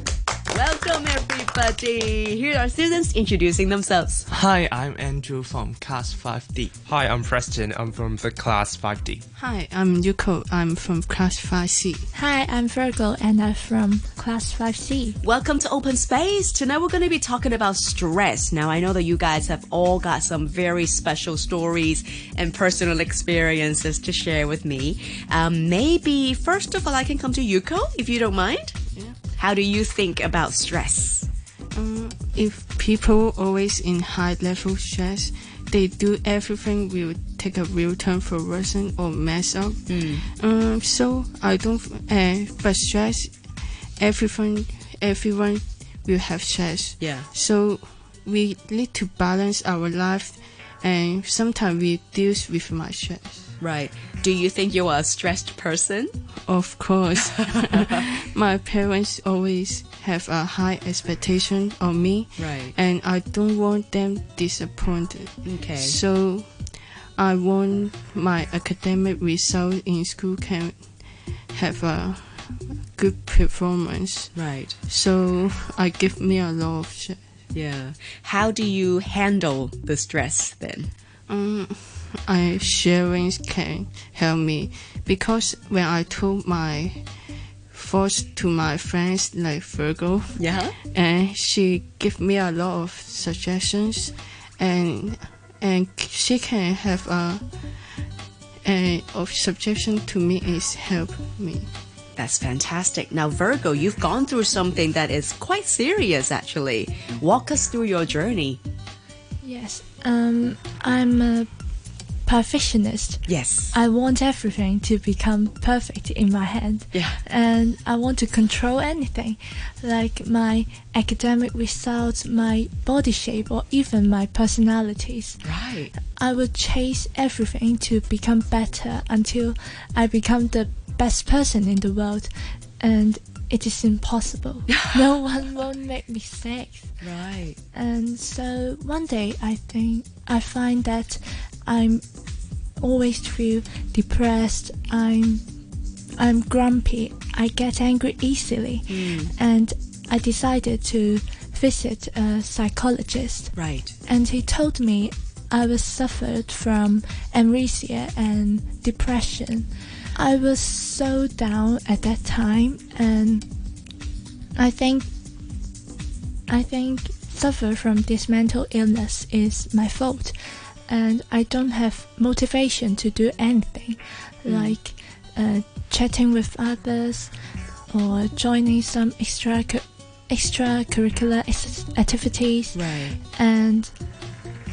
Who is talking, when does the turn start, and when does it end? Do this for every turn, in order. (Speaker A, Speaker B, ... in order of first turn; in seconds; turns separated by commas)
Speaker A: 0.5-4.3, Speaker B: 4.3-6.7, Speaker C: 6.8-9.2, Speaker D: 9.4-12.1, Speaker E: 12.1-15.2, Speaker A: 15.2-28.8, Speaker A: 29.3-31.3, Speaker D: 31.7-53.5, Speaker A: 39.9-40.2, Speaker A: 47.0-47.3, Speaker A: 53.6-56.1, Speaker D: 56.5-77.2, Speaker A: 62.4-62.8, Speaker A: 65.5-66.0, Speaker A: 74.3-74.8, Speaker A: 77.5-80.9, Speaker D: 81.3-87.1, Speaker D: 87.7-98.0, Speaker A: 90.4-90.8, Speaker D: 98.7-101.7, Speaker A: 102.2-108.6, Speaker E: 109.4-163.9, Speaker A: 113.2-113.7, Speaker A: 116.9-117.2, Speaker A: 125.4-125.9, Speaker A: 137.0-137.6, Speaker A: 148.9-149.3, Speaker A: 153.5-153.9, Speaker E: 164.6-165.2, Speaker E: 166.5-184.3, Speaker A: 174.4-174.8, Speaker A: 182.7-183.2